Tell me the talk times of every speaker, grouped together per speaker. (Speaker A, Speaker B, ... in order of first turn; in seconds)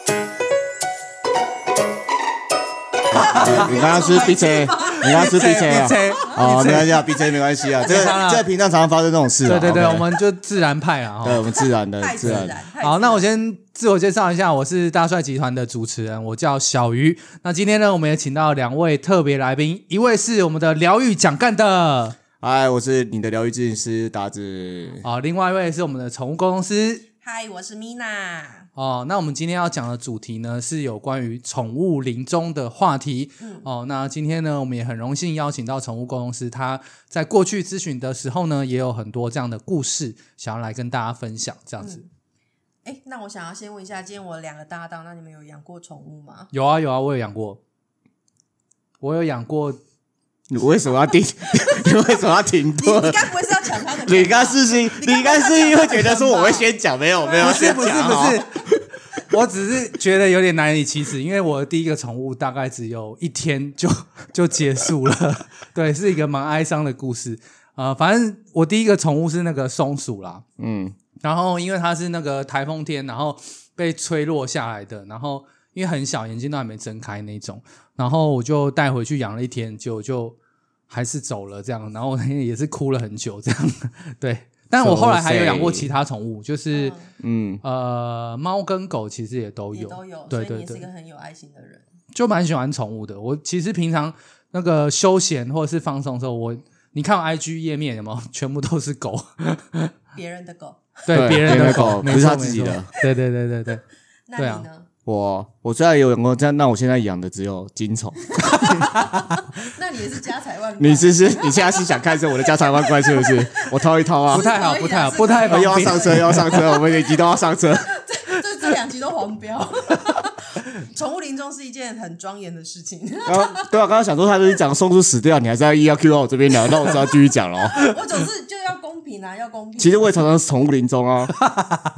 Speaker A: 3.1-10.2, 11.2-12.6, 22.4-25.1, 50.5-53.4, 54.0-58.7, 70.6-71.0, 84.8-85.9, 87.2-87.6, 101.1-102.9, 105.1-108.7, 110.8-114.5, 115.4-117.9, 123.3-127.9, 129.8-131.4
Speaker B: 3.1-7.0, 7.8-8.3, 11.5-13.3, 27.2-28.7, 33.4-33.7, 41.8-42.1, 42.8-46.5, 52.8-56.7, 57.2-57.7, 86.7-87.1, 89.7-91.9, 100.1-101.9, 104.3-104.9, 108.3-123.7, 127.7-130.2
Speaker C: 3.3-3.7, 4.9-7.1, 7.8-8.5, 9.4-11.4, 12.2-22.2, 25.0-27.1, 28.8-42.0, 46.5-47.6, 49.0-49.8, 57.4-58.5, 59.1-70.4, 71.2-80.4, 80.9-87.0, 87.6-90.9, 92.1-99.9, 101.1-103.9, 104.4-104.7, 108.6-109.3, 114.3-116.7, 131.5-131.8